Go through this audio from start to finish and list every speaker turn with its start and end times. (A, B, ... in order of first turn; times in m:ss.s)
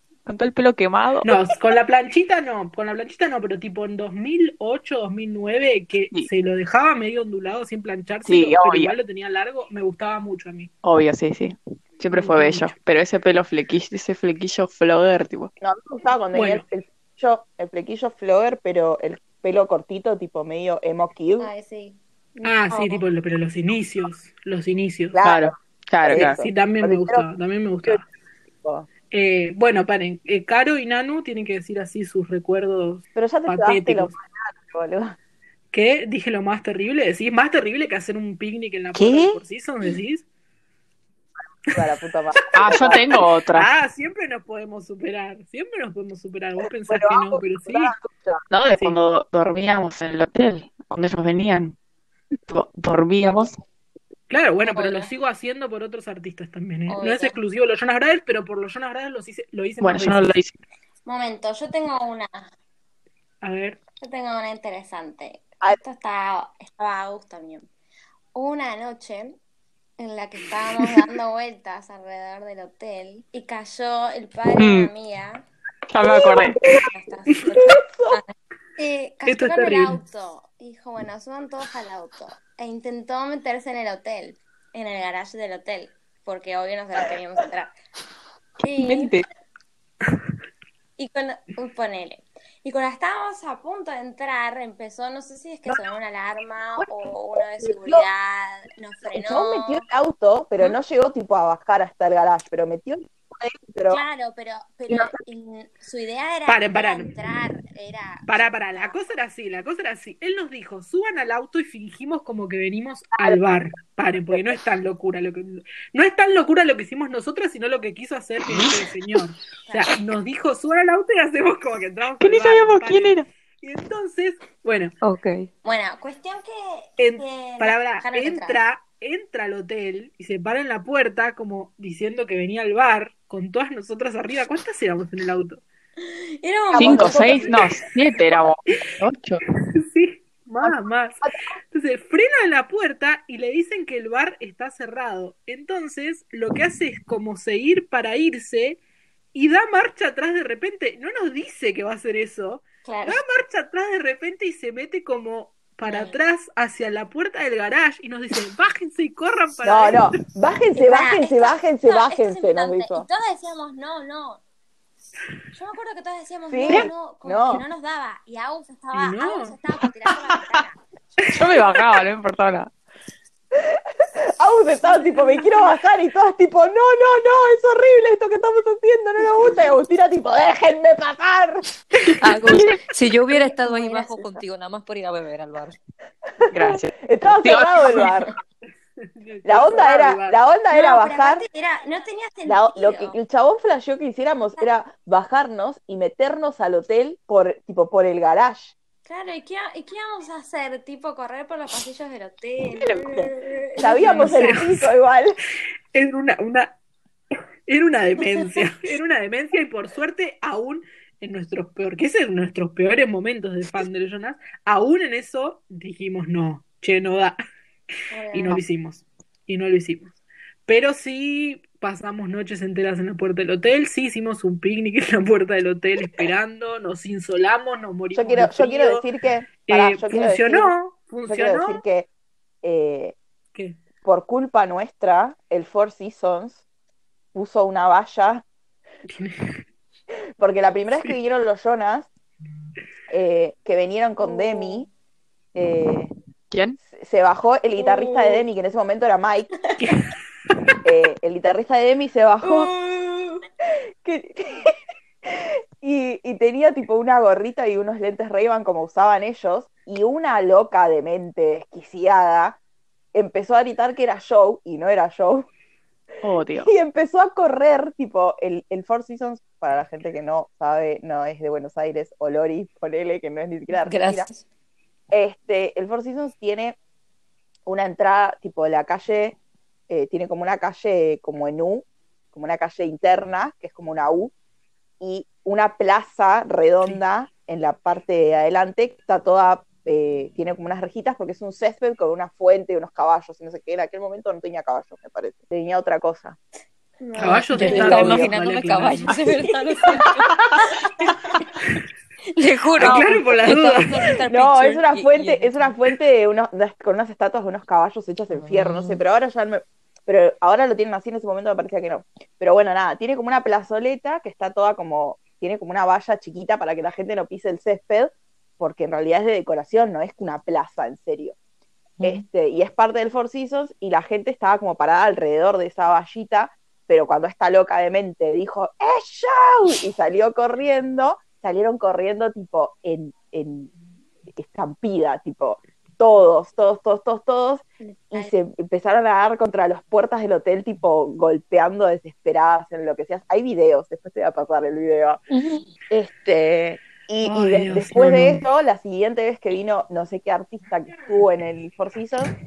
0:00.2-0:01.4 A
0:01.2-0:10.7 B
0:08.2-0:08.9 A
0:10.8-0:15.5 A
0:12.1-0:12.7 B
0:15.6-0:21.5 C
0:16.3-0:16.6 B
0:21.4-0:23.0 D
0:22.4-0:25.2 B
0:25.1-0:25.5 C
0:25.2-0:26.4 A
0:26.0-0:27.2 C
0:26.1-0:28.0 B
0:28.6-0:28.9 C
0:29.1-0:34.1 B
0:33.1-0:35.2 C
0:35.7-0:40.2 B
0:39.0-0:39.4 A
0:41.7-0:43.1 C
0:42.5-0:47.9 B
0:42.5-0:43.7 A
0:46.9-0:48.4 C
0:48.5-0:51.7 A
0:52.5-0:53.5 A
0:54.3-1:00.3 B
0:54.6-0:55.1 D
0:56.9-0:57.4 D
0:59.8-1:00.5 A
1:01.0-1:02.5 D
1:03.4-1:03.8 B
1:04.0-1:07.7 D
1:08.3-1:09.4 D
1:10.0-1:15.4 D
1:14.6-1:14.9 A
1:15.9-1:16.6 A
1:16.3-1:16.9 C
1:16.9-1:27.7 D
1:17.5-1:18.2 C
1:19.2-1:20.0 B
1:28.6-1:29.1 D
1:28.8-1:29.2 A
1:31.0-1:39.8 D
1:35.7-1:35.9 C
1:37.6-1:38.0 C
1:39.0-1:44.0 C
1:43.9-1:49.0 D
1:44.9-1:45.2 C
1:46.4-1:47.1 B
1:48.2-2:04.9 B
1:59.6-1:59.9 D
2:02.2-2:03.3 A
2:05.0-2:05.5 E
2:05.6-2:08.6 D
2:07.0-2:15.6 B
2:16.0-2:17.9 D
2:16.7-2:17.6 C
2:16.8-2:19.4 A
2:19.8-2:28.8 B
2:29.3-2:40.1 B
2:32.8-2:33.2 D
2:35.8-2:36.2 D
2:39.6-2:43.1 C
2:40.8-2:44.4 D
2:45.5-2:50.8 D
2:46.5-2:47.6 C
2:48.9-2:49.6 B
2:51.2-2:51.6 B
2:51.3-2:52.7 A
2:53.6-2:53.8 C
2:54.4-3:01.6 C
2:54.8-2:55.6 D
3:02.2-3:05.8 E
3:02.5-3:02.8 A
3:03.3-3:04.3 D
3:06.4-3:08.3 C
3:06.5-3:08.2 A
3:07.9-3:08.3 D
3:09.0-3:10.4 B
3:09.4-3:11.4 C
3:10.7-3:13.2 D
3:12.4-3:18.7 C
3:19.0-3:24.5 D
3:22.7-3:23.3 A
3:23.8-3:25.4 C
3:24.0-3:24.9 B
3:25.9-3:26.8 B
3:27.7-3:37.4 B
3:38.1-3:38.6 D
3:38.3-3:40.1 B
3:40.7-3:49.0 B
3:48.1-3:50.7 C
3:49.6-3:51.8 B
3:51.3-3:52.1 C
3:52.6-3:53.2 C
3:54.0-3:56.6 C
3:57.3-3:58.4 C
3:59.1-3:59.4 B
4:00.4-4:02.1 C
4:03.1-4:04.9 C
4:04.2-4:04.8 D
4:05.5-4:06.1 C
4:06.5-4:06.8 A
4:06.8-4:09.5 C
4:07.9-4:08.4 D
4:09.8-4:10.1 B
4:10.8-4:12.7 C
4:12.4-4:13.4 D
4:14.0-4:14.7 C
4:15.2-4:22.6 C
4:23.1-4:25.5 C
4:26.2-4:26.7 A
4:26.6-4:34.3 C
4:33.7-4:34.4 E
4:35.1-4:36.8 C
4:37.6-4:39.4 C
4:39.9-4:44.3 C
4:45.0-4:56.4 C
4:57.0-4:58.2 D
4:57.2-4:59.1 B
4:57.3-5:00.2 E
4:57.6-4:58.3 C
5:00.7-5:01.1 D
5:02.3-5:05.7 E
5:02.8-5:03.9 B
5:04.3-5:21.4 C
5:08.3-5:09.0 E
5:22.0-5:33.7 C
5:34.3-5:45.2 C
5:37.8-5:38.3 D
5:45.3-5:45.7 E
5:45.9-5:52.3 C
5:47.2-5:48.4 B